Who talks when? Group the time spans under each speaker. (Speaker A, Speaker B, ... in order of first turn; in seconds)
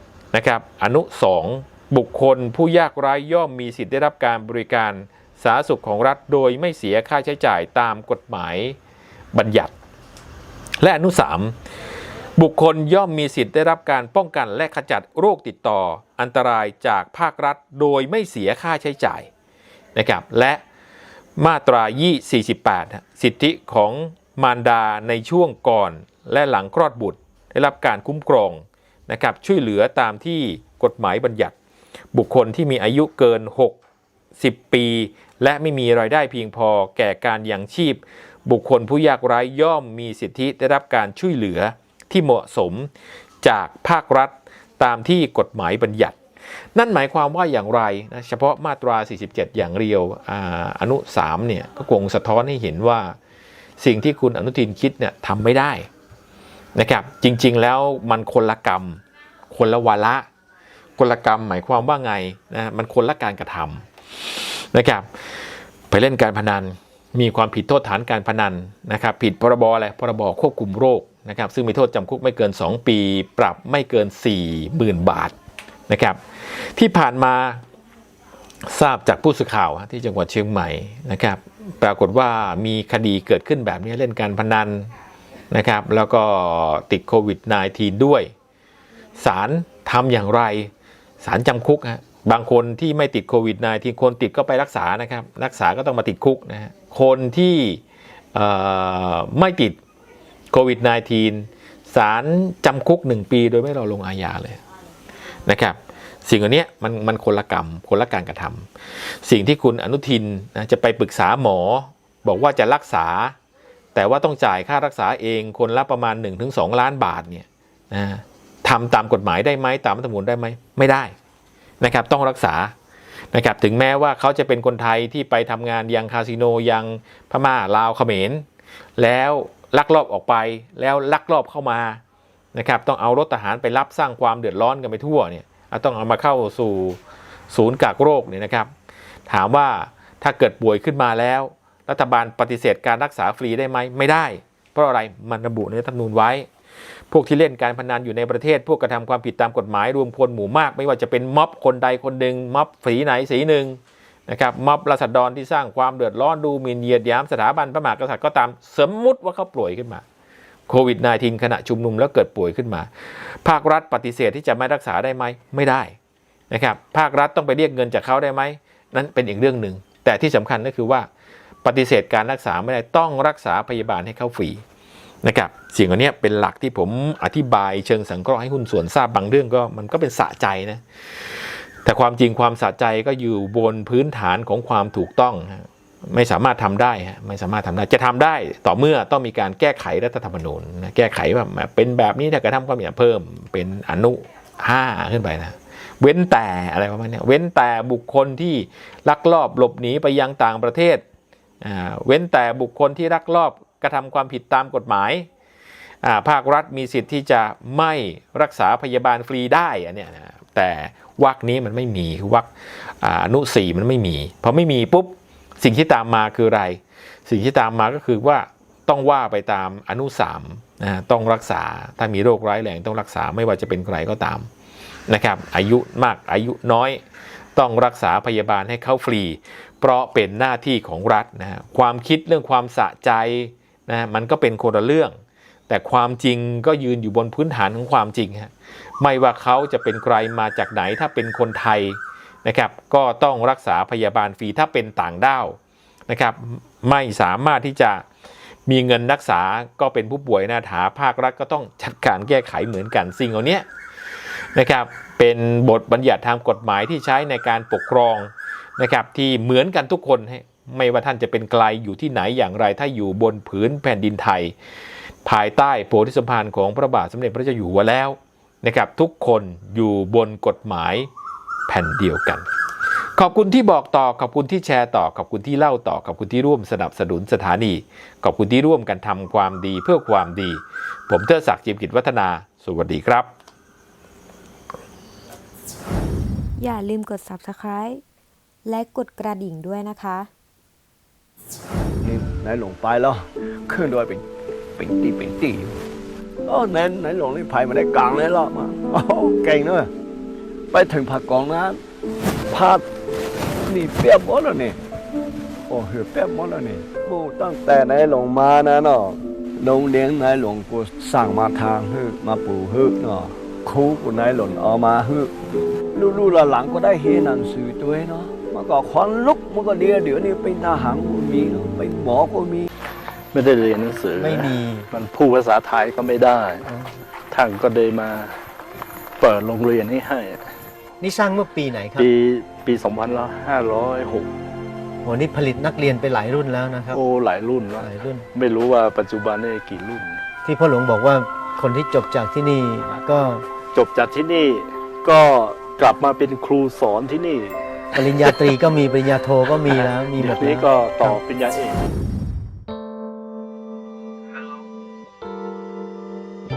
Speaker A: 0.3-8.8, 9.3-9.7, 10.8-11.6, 12.4-19.3, 19.9-20.6, 21.4-31.6, 32.1-33.8, 34.4-42.9, 43.4-46.2, 46.8-53.2, 53.8-55.9, 56.8-60.3, 61.0-75.3, 75.9-77.6, 78.7-84.9, 85.5-88.3, 89.2-97.8, 98.3-99.8, 100.5-104.6, 105.5-108.7, 109.2-113.4, 114.0-121.1, 121.8-122.8, 123.3-128.5, 129.0-132.0, 132.5-138.7, 139.3-146.5, 147.1-160.0, 160.7-166.0, 166.5-171.1, 171.6-174.6, 175.2-201.0, 201.6-205.3, 206.0-224.5, 225.1-227.0, 227.6-235.2, 235.7-248.1, 248.7-253.7, 254.5-264.6, 265.2-271.1, 271.7-272.5, 273.2-283.3
Speaker B: 286.6-288.0, 288.6-290.3
Speaker C: 292.0-294.2, 294.8-295.8, 296.5-299.9, 300.7-301.8, 302.5-302.9, 303.6-304.8, 305.7-315.3, 315.9-322.7
Speaker D: 323.3-326.6, 327.3-328.4, 329.2-330.5, 332.0-334.3, 336.9-340.2, 343.7-348.6, 349.6-351.8
Speaker E: 324.2-324.9, 331.0-332.1, 335.0-337.0, 337.8-338.3, 340.4-343.5, 347.9-351.2